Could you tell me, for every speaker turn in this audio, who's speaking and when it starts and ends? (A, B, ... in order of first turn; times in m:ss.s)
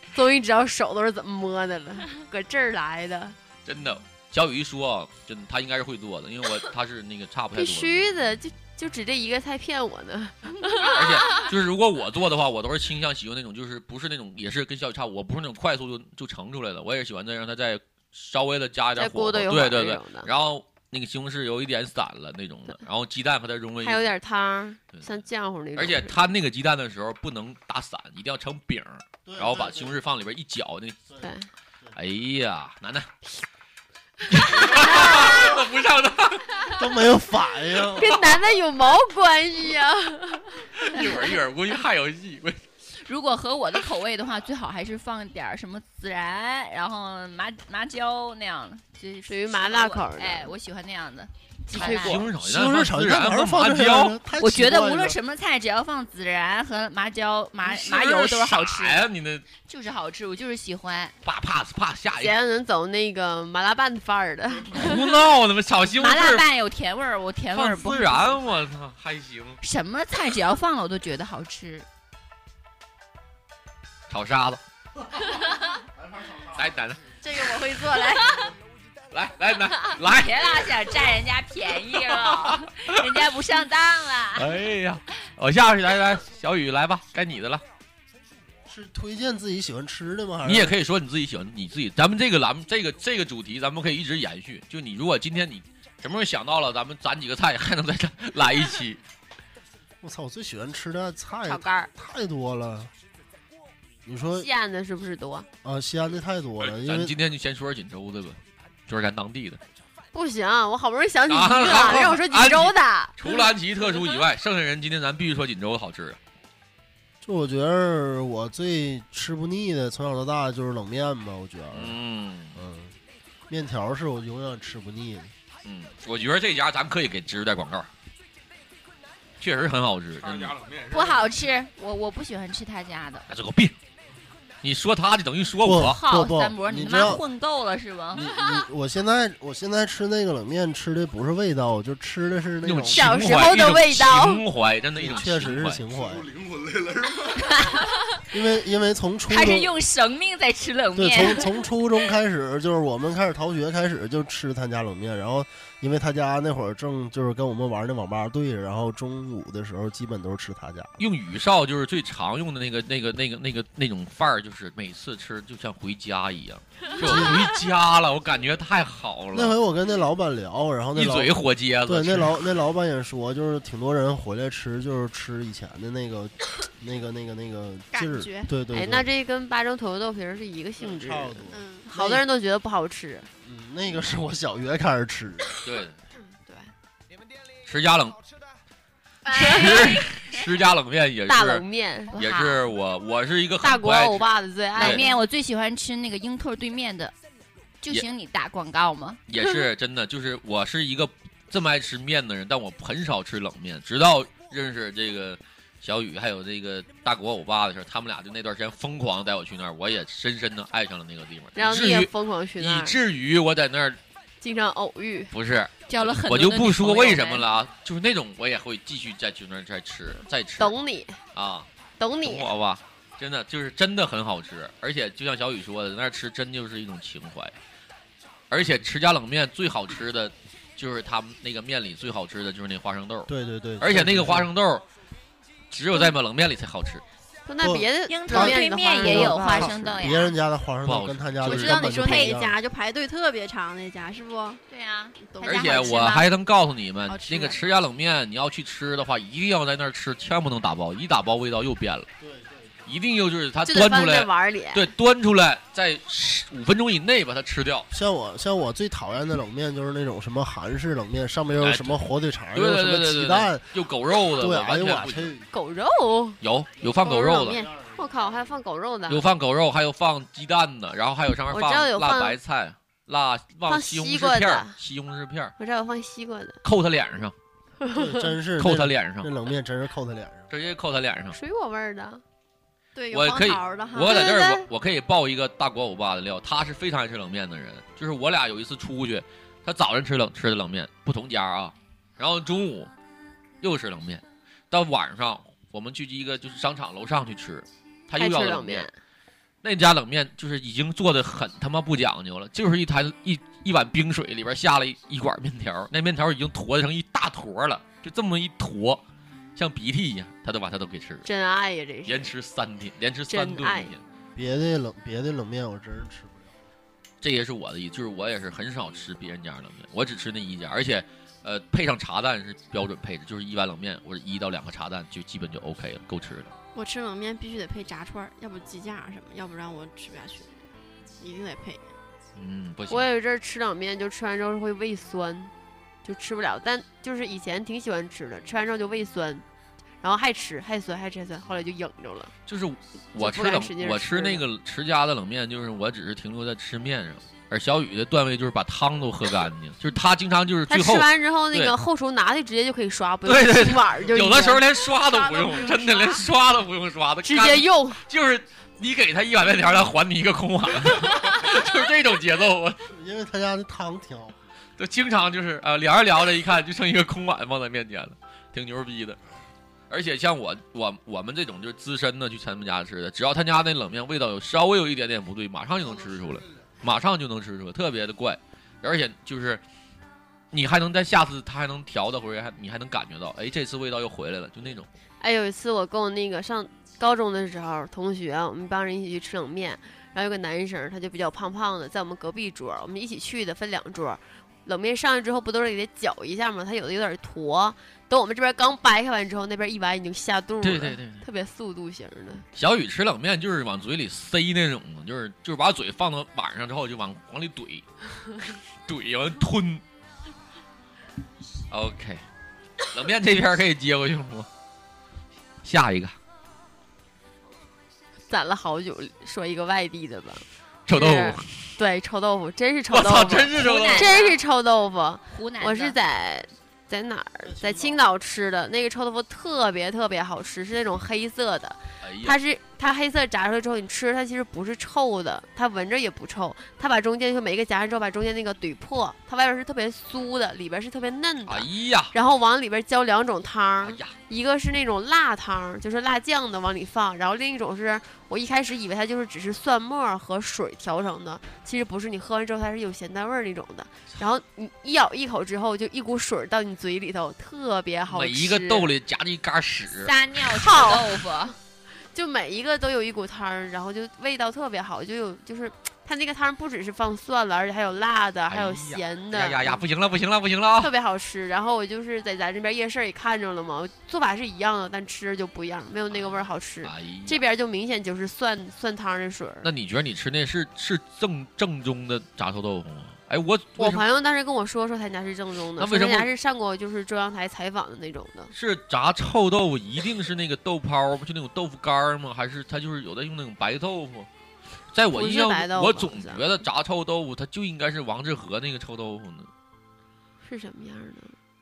0:00.1-0:03.4 A
0:03.6-0:08.1 B
0:07.5-0:11.3 A
0:10.9-0:24.1 B
0:10.9-0:11.5 C
0:19.0-0:20.3 A
0:23.8-0:26.3 A
0:25.8-0:31.0 B
0:29.2-0:30.0 D
0:31.2-0:31.5 A
0:31.9-0:33.1 B
0:34.3-0:36.6 B
0:34.8-0:35.2 A
0:36.8-0:38.1 D
0:38.0-0:41.0 A
0:38.0-0:38.3 B
0:40.7-0:42.6 B
0:42.9-0:52.3 C
0:49.3-0:50.5 A
0:51.7-0:52.1 A
0:51.7-0:54.2 B
0:52.4-0:55.2 D
0:54.4-1:01.1 C
0:57.6-0:59.5 B
1:01.2-1:02.3 B
1:02.2-1:05.0 A
1:04.7-1:06.4 B
1:06.0-1:08.3 C
1:07.5-1:09.6 B
1:09.6-1:11.8 C
1:14.1-1:14.6 B
1:15.2-1:15.7 C
1:16.0-1:16.3 D
1:16.5-1:17.0 B
1:17.2-1:18.4 E
1:18.2-1:18.5 C
1:19.1-1:20.7 B
1:19.7-1:24.5 C
1:21.9-1:23.0 B
1:24.4-1:27.6 B
1:28.6-1:30.7 D
1:30.4-1:39.0 B
1:40.0-1:42.9 D
1:41.5-1:41.9 E
1:44.0-1:44.5 D
1:44.4-1:45.5 A
1:45.6-1:47.1 D
1:46.6-1:49.6 B
1:50.1-1:53.3 A
1:51.3-1:56.2 B
1:57.2-2:02.0 D
2:01.7-2:02.6 B
2:02.5-2:03.0 D
2:03.5-2:05.3 D
2:05.6-2:07.9 B
2:09.4-2:10.5 B
2:10.2-2:11.4 F
2:10.9-2:13.2 C
2:13.3-2:13.8 B
2:14.6-2:16.0 B
2:15.6-2:17.2 D
2:15.7-2:18.3 C
2:18.1-2:23.3 D
2:22.6-2:25.8 B
2:22.9-2:24.4 E
2:25.0-2:26.3 D
2:25.9-2:27.8 F
2:27.5-2:28.2 C
2:28.3-2:29.8 D
2:29.3-2:31.5 C
2:30.9-2:41.0 D
2:41.0-2:49.6 B
2:47.0-2:47.5 D
2:49.3-2:51.3 D
2:50.9-2:52.5 B
2:51.8-2:59.1 D
2:57.9-2:58.5 E
2:58.7-3:03.3 A
3:00.8-3:02.2 D
3:01.5-3:01.9 E
3:03.4-3:05.6 D
3:05.6-3:06.0 B
3:06.3-3:06.6 E
3:07.6-3:08.2 B
3:09.3-3:09.9 E
3:09.3-3:15.0 B
3:11.3-3:12.2 A
3:12.1-3:12.6 C
3:13.6-3:15.0 A
3:14.8-3:17.1 C
3:17.8-3:19.2 C
3:19.3-3:34.0 B
3:31.6-3:33.0 A
3:34.4-3:35.3 A
3:35.3-3:40.7 B
3:35.9-3:37.4 C
3:40.6-3:41.2 A
3:41.3-3:41.7 B
3:42.0-3:42.5 A
3:42.2-3:47.5 B
3:48.5-3:54.8 B
3:53.3-3:54.5 D
3:55.7-3:57.0 B
3:57.4-4:00.1 A
3:57.6-4:02.5 D
3:58.1-4:00.3 C
4:00.8-4:01.9 B
4:01.4-4:04.6 E
4:02.0-4:02.3 C
4:04.7-4:06.3 C
4:05.2-4:06.0 E
4:05.4-4:12.1 B
4:07.0-4:07.6 E
4:12.2-4:12.7 D
4:12.8-4:17.9 B
4:13.6-4:14.9 A
4:17.9-4:23.8 D
4:21.6-4:25.3 B
4:24.3-4:25.5 D
4:25.5-4:26.4 A
4:26.4-4:27.7 B
4:27.0-4:27.7 E
4:27.9-4:29.2 A
4:29.1-4:35.5 B
4:31.5-4:32.4 A
4:33.7-4:34.8 A
4:35.6-4:36.6 A
4:36.6-4:37.3 B
4:37.8-4:38.3 A
4:37.9-4:40.5 D
4:38.6-4:39.3 B
4:40.5-4:41.4 B
4:41.3-4:42.2 A
4:42.9-4:44.5 E
4:43.1-4:52.9 B
4:53.6-4:58.9 B
4:58.2-4:59.0 A
4:59.6-5:09.0 B
5:09.6-5:11.3 B
5:11.2-5:12.3 A
5:12.0-5:14.0 B
5:13.3-5:13.9 A
5:14.4-5:16.6 D
5:17.2-5:26.5 B
5:26.7-5:31.9 E
5:32.4-5:33.1 B
5:32.9-5:35.5 A
5:36.0-5:39.4 A
5:40.0-5:42.3 A
5:42.5-5:51.7 B
5:43.2-5:44.4 A
5:50.7-5:54.6 A
5:53.2-6:02.8 B
5:54.8-5:56.2 E
5:57.2-5:58.0 A
6:02.8-6:04.4 D
6:04.8-6:09.2 B
6:09.9-6:19.6 B
6:20.5-6:24.9 B
6:25.2-6:42.4 A
6:40.6-6:41.2 B
6:42.5-6:47.8 B
6:48.8-6:49.8 B
6:51.7-6:52.2 B
6:52.9-6:54.5 B
6:55.6-6:56.2 B
6:58.3-7:38.9 A
7:00.9-7:01.7 B
7:02.9-7:04.1 B
7:03.6-7:04.4 C
7:05.3-7:06.0 C
7:07.4-7:08.0 D
7:12.0-7:12.4 B
7:21.5-7:22.1 B
7:23.8-7:24.1 B
7:38.1-7:40.1 B
7:40.0-7:41.5 C
7:40.5-7:41.5 A
7:42.1-7:49.8 A
7:48.5-7:50.9 B
7:50.8-7:59.7 A
7:56.2-7:57.4 B
7:59.6-8:04.0 B
8:03.8-8:08.5 A
8:05.8-8:06.3 B
8:08.5-8:14.3 B
8:14.9-8:19.5 B
8:15.1-8:16.4 A
8:20.4-8:21.4 A